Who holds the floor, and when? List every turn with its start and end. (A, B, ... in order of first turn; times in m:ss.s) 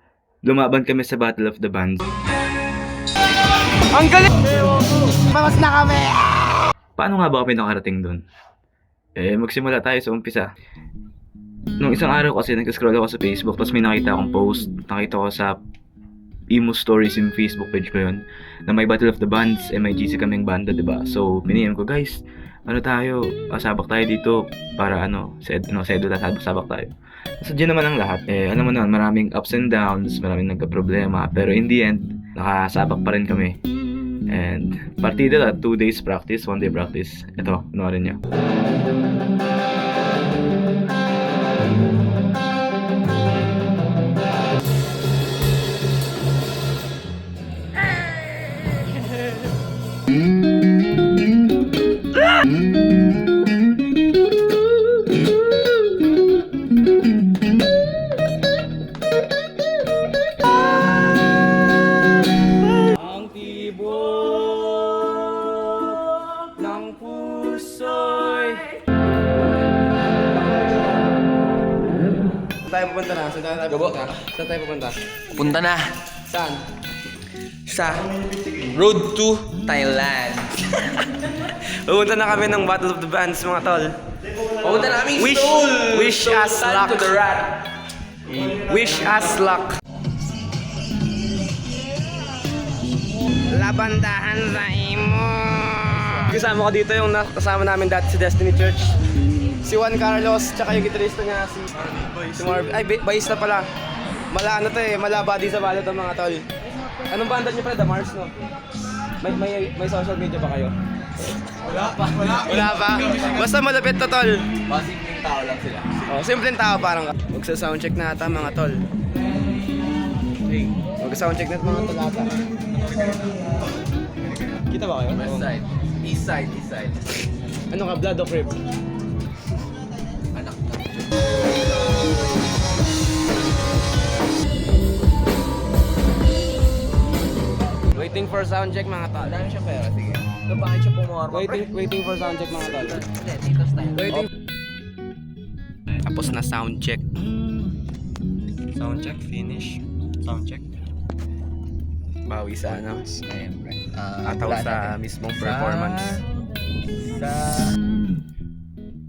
0:00.4-0:02.1 A
0:03.9-0:06.5 B
0:07.0-0:08.2 A
0:09.2-0:10.5 A
0:11.8-0:15.6 A
0:16.5-0:33.6 A
0:34.3-0:38.2 A
1:02.8-1:08.8 B
1:12.6-1:15.0 B
1:13.8-1:14.1 C
1:15.3-1:15.9 C
1:16.2-1:16.6 B
1:17.7-1:20.6 C
1:21.5-1:23.9 B
1:24.5-1:27.6 C
1:24.9-1:27.2 B
1:28.3-1:28.7 C
1:28.6-1:29.8 B
1:33.5-1:39.0 B
1:39.6-1:43.6 B
1:44.3-1:48.3 B
1:49.2-1:50.7 B
1:51.7-1:52.4 C
1:52.1-1:54.5 B
1:54.7-1:56.1 C
1:56.1-1:58.8 B
2:00.4-2:00.8 C
2:01.0-2:02.4 B
2:04.7-2:05.5 B
2:05.1-2:07.2 C
2:07.7-2:08.6 B
2:10.3-2:11.1 C
2:17.9-2:19.4 B
2:19.2-2:21.7 C
2:21.3-2:23.0 B
2:23.1-2:24.2 C
2:24.0-2:24.3 B
2:26.0-2:27.0 B
2:28.7-2:30.6 C
2:32.3-2:33.2 B
2:33.3-2:34.8 C
2:34.2-2:36.2 B